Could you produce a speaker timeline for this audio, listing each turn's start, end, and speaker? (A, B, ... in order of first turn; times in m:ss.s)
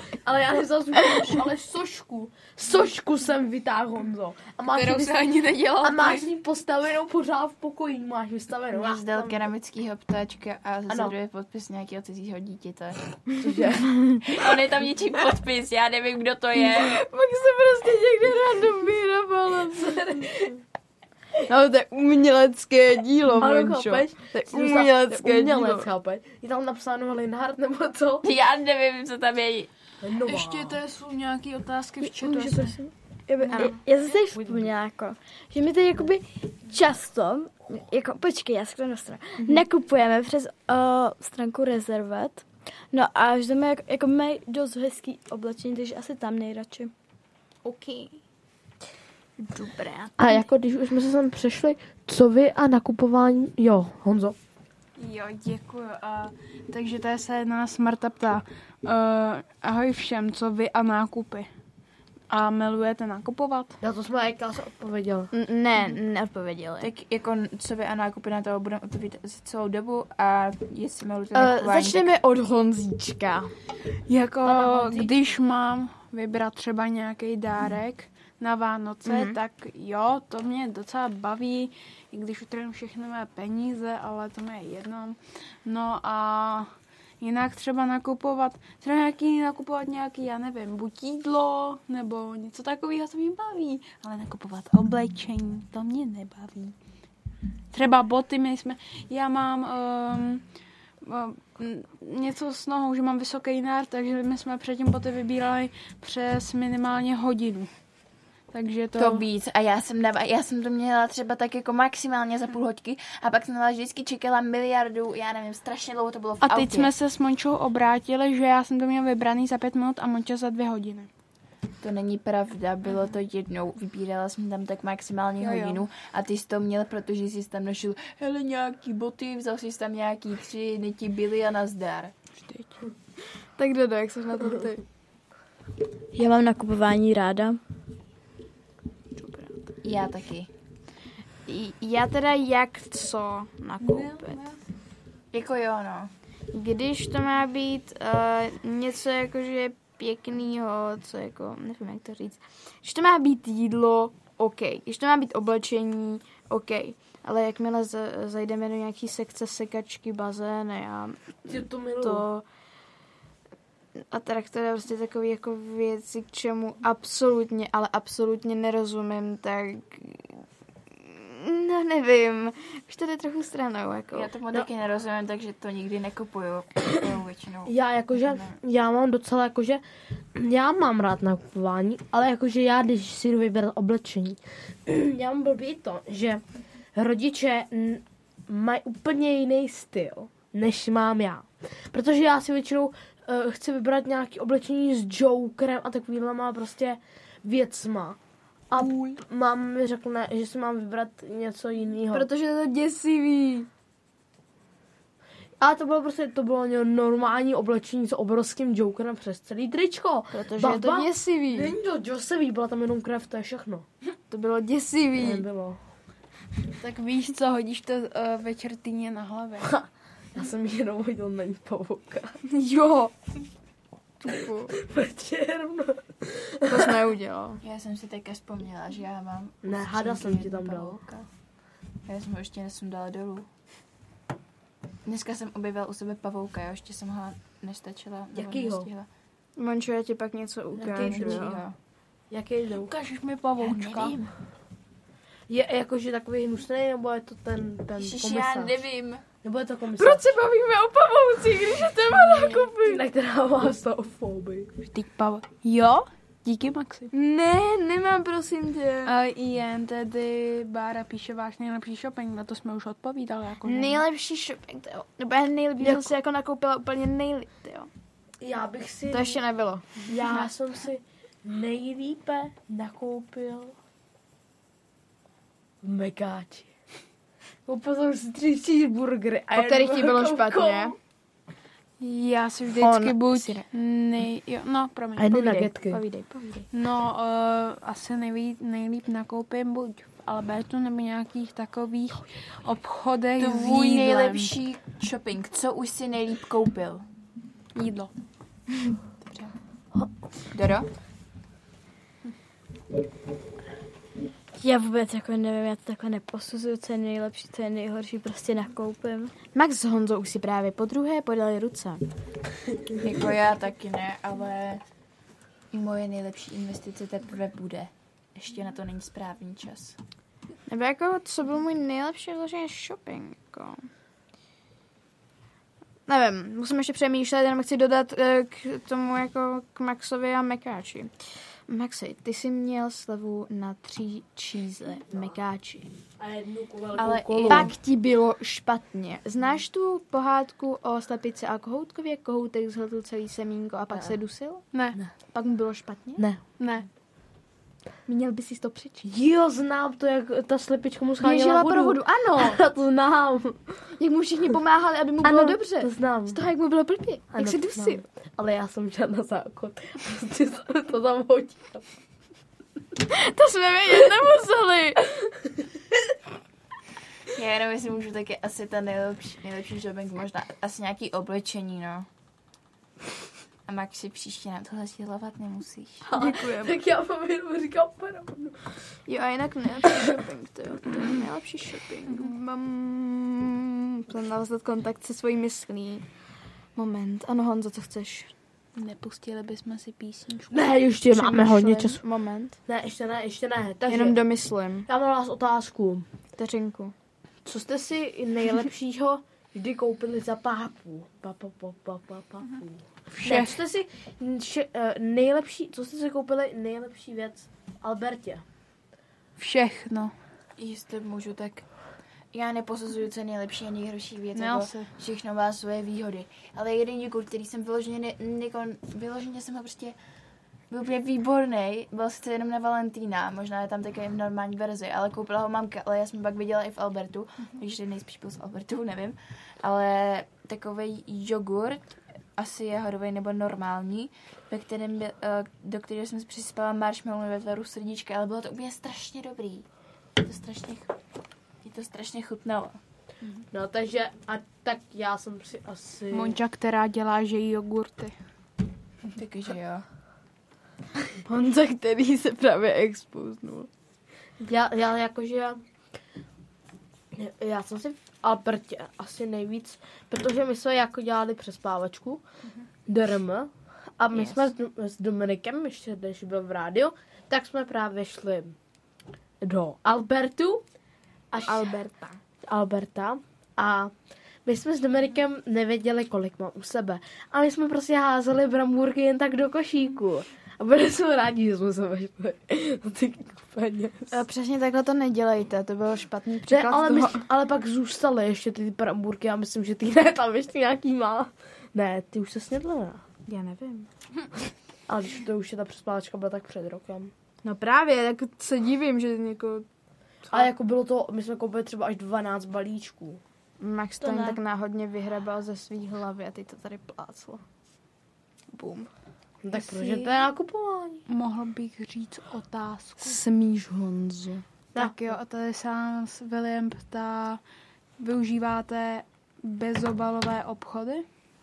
0:00.2-0:09.5 A
0:01.0-0:01.3 B
0:04.7-0:06.2 C
0:08.7-0:13.2 D
0:10.9-0:11.1 A
0:13.4-0:13.8 A
0:13.9-0:14.2 B
0:14.2-0:17.0 D
0:16.6-0:20.3 B
0:19.8-0:20.5 A
0:21.4-0:25.9 B
0:23.4-0:28.2 A
0:28.2-0:29.7 D
0:30.0-0:30.8 A
0:30.2-0:32.8 C
0:32.0-0:46.9 E
0:33.5-0:33.7 C
0:34.3-0:34.7 A
0:47.6-0:48.2 B
0:49.4-0:50.4 B
0:50.2-0:54.4 A
0:55.0-1:01.5 C
1:02.3-1:03.8 C
1:03.8-1:05.3 A
1:05.3-1:06.9 B
1:06.8-1:12.1 D
1:11.3-1:13.5 B
1:14.1-1:36.8 C
1:14.4-1:15.1 A
1:19.0-1:19.4 B
1:37.7-1:40.4 C
1:41.0-1:47.7 C
1:48.5-1:49.2 C
1:49.0-1:56.9 D
1:56.4-2:01.1 C
2:01.8-2:12.1 D
2:05.4-2:05.8 C
2:12.4-2:12.8 C
2:13.6-2:14.8 B
2:16.1-2:17.6 E
2:19.1-2:19.7 B
2:19.8-2:20.5 D
2:21.5-2:24.4 B
2:24.0-2:24.3 C
2:25.3-2:26.1 D
2:26.5-2:42.4 B
2:41.4-2:42.2 A
2:44.0-2:50.4 B
2:51.0-2:54.3 B
2:54.1-2:58.6 D
2:57.6-2:59.8 A
3:00.3-3:06.4 A
3:06.9-3:18.2 A
3:18.7-3:22.3 A
3:18.7-3:19.2 B
3:22.1-3:23.7 B
3:25.6-3:33.8 A
3:30.3-3:31.7 B
3:34.3-3:35.4 B
3:35.2-3:35.8 A
3:36.8-3:39.7 C
3:39.6-3:42.4 A
3:42.4-3:43.1 B
3:44.2-3:44.7 B
3:44.8-3:46.9 A
3:46.7-3:47.6 B
3:47.6-3:51.3 D
3:49.6-3:50.9 A
3:52.0-3:53.5 D
3:55.0-3:59.1 D
3:58.3-3:58.9 A
3:59.6-4:01.6 B
4:00.8-4:01.7 D
4:00.9-4:01.5 A
4:02.3-4:02.9 A
4:02.8-4:04.2 C
4:03.6-4:04.3 D
4:05.5-4:08.8 A
4:08.0-4:09.2 D
4:09.4-4:10.2 A
4:10.0-4:13.0 B
4:10.0-4:10.3 C
4:12.8-4:14.7 A
4:14.9-4:17.1 C
4:17.1-4:19.2 B
4:19.0-4:24.0 C
4:23.6-4:27.9 B
4:25.8-4:26.1 A
4:28.4-4:29.4 A
4:29.1-4:30.1 B
4:30.0-4:33.7 A
4:35.8-4:36.7 A
4:37.6-4:40.9 A
4:39.5-4:40.9 B
4:42.0-4:45.7 C
4:42.8-4:43.6 B
4:45.2-4:46.0 A
4:45.7-4:46.7 B
4:46.7-4:54.5 C
4:53.4-4:57.0 D
4:57.7-4:58.1 C
5:00.5-5:00.9 D
5:04.6-5:09.4 E
5:09.5-5:12.0 B
5:13.0-5:14.8 D
5:15.7-5:20.0 D
5:20.7-5:23.8 B
5:26.1-5:31.1 B
5:31.7-5:35.9 B
5:35.1-5:35.4 A
5:36.2-5:37.7 A
5:37.0-5:37.7 D
5:37.4-5:46.3 B
5:44.7-5:45.0 C
5:46.6-5:46.8 C
5:48.1-5:49.1 B
5:49.1-5:53.8 A
5:51.2-5:52.6 B
5:54.0-5:58.0 B
5:55.2-5:56.4 A
5:57.3-6:01.9 A
6:03.1-6:05.2 B
6:07.3-6:12.1 D
6:13.6-6:16.1 D
6:16.1-6:18.6 A
6:16.1-6:16.8 B
6:19.0-6:26.0 B
6:22.1-6:22.3 C
6:26.7-6:28.3 B
6:28.8-6:30.7 C
6:30.5-6:32.0 A
6:31.1-6:32.6 B
6:32.6-6:34.2 A
6:33.9-6:34.9 B
6:34.9-6:36.1 A
6:36.4-6:36.9 B
6:37.4-6:48.4 A
6:43.1-6:43.6 C
6:49.4-6:50.2 C
6:50.6-6:51.7 D
6:52.3-7:00.0 D
6:54.3-6:54.9 C
7:00.7-7:19.6 D
7:20.2-7:20.9 D
7:21.6-7:22.8 D
7:23.5-7:26.4 A
7:26.1-7:28.1 C
7:29.2-7:29.8 D
7:31.2-7:33.7 B
7:34.4-7:35.6 A
7:37.1-7:42.2 A
7:42.8-7:48.6 A
7:44.1-7:44.4 B
7:49.4-7:50.6 A
7:51.3-7:51.7 A
7:51.4-7:52.2 B
7:52.4-7:53.9 A
7:54.4-8:04.2 A
8:04.1-8:07.3 B
8:06.5-8:13.0 A
8:13.2-8:13.9 B
8:14.9-8:17.1 A
8:17.4-8:19.6 B
8:20.2-8:20.5 B
8:20.3-8:23.2 A
8:23.6-8:27.4 B
8:24.0-8:24.4 A
8:28.5-8:28.9 B
8:29.4-8:31.0 A
8:29.6-8:30.0 C
8:31.1-8:33.2 C
8:33.0-8:34.4 B
8:34.7-8:35.1 A
8:34.8-8:37.4 C
8:38.0-8:41.0 C